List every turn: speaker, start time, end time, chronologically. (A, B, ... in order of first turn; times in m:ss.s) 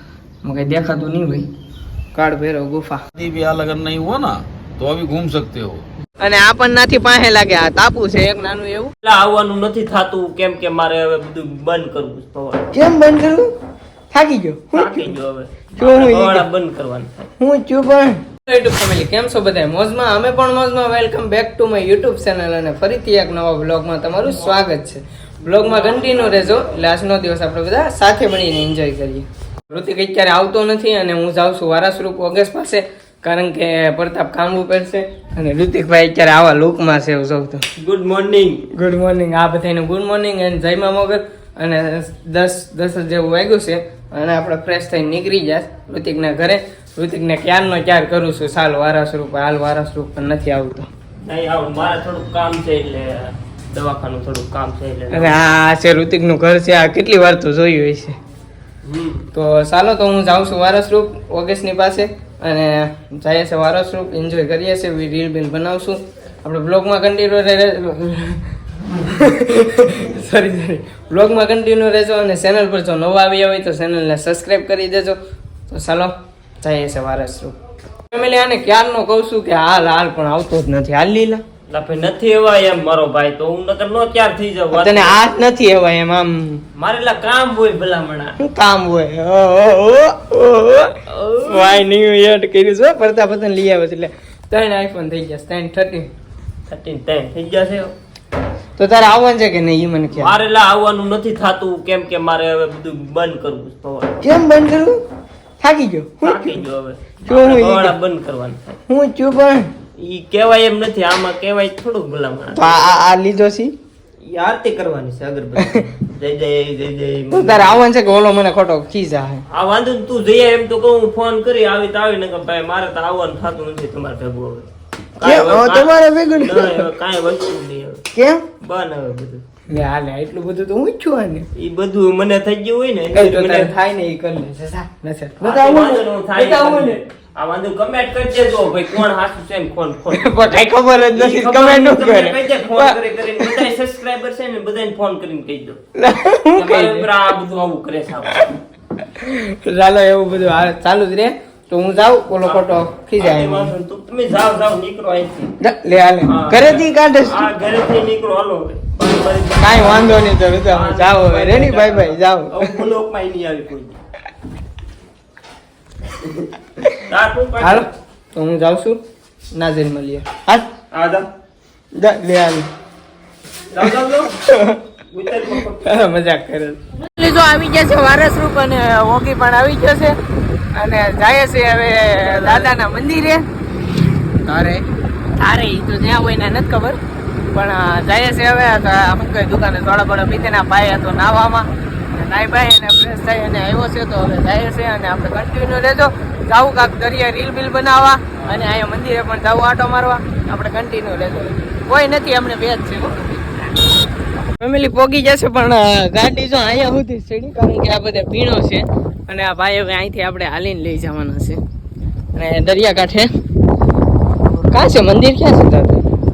0:00.4-0:01.5 A
0:02.1-0:03.0 A
0:03.1-0:05.8 B
0:06.2-0:08.9 A
0:09.0-0:12.7 C
0:12.7-0:13.5 A
0:14.1-0:15.1 A
0:14.7-0:17.2 C
0:15.8-0:16.4 A
0:17.4-0:37.6 A
0:25.5-0:27.0 C
0:37.8-0:38.6 C
0:38.7-0:50.9 A
0:51.2-0:55.4 C
0:55.1-0:58.2 A
0:58.8-0:59.3 C
0:59.3-1:15.2 A
1:15.7-1:17.6 A
1:18.1-1:21.4 A
1:21.7-1:25.2 C
1:24.7-1:26.6 A
1:26.7-1:28.4 C
1:28.4-1:36.1 A
1:31.1-1:31.8 C
1:36.7-1:37.9 C
1:38.8-1:40.3 A
1:40.1-1:44.2 C
1:44.2-1:45.0 A
1:45.6-1:46.5 A
1:46.2-1:48.6 C
1:47.3-1:47.9 A
1:48.9-1:49.7 A
1:50.0-1:52.9 C
1:52.5-1:53.7 A
1:54.2-1:57.8 C
1:57.3-1:59.4 A
1:59.5-2:08.0 C
2:05.2-2:06.8 A
2:08.1-2:08.4 A
2:08.6-2:09.4 C
2:09.7-2:11.5 A
2:11.6-2:13.7 C
2:13.1-2:17.0 A
2:15.4-2:25.8 C
2:20.1-2:23.6 A
2:26.0-2:27.1 A
2:26.5-2:28.5 C
2:29.0-2:33.7 A
2:32.4-2:35.5 C
2:35.6-2:37.4 A
2:36.2-2:44.0 C
2:39.6-2:42.5 A
2:46.2-2:46.5 C
2:47.1-2:47.9 C
2:47.6-2:49.0 A
2:49.5-2:50.7 A
2:50.9-2:51.2 C
2:51.9-2:52.7 A
2:53.7-2:54.4 C
2:54.4-2:54.8 A
2:55.1-2:55.9 C
2:55.8-3:00.2 A
3:00.7-3:03.4 A
3:02.2-3:02.7 C
3:04.4-3:04.8 A
3:05.4-3:23.8 A
3:24.6-3:31.6 A
3:32.3-3:33.3 A
3:34.7-3:36.0 A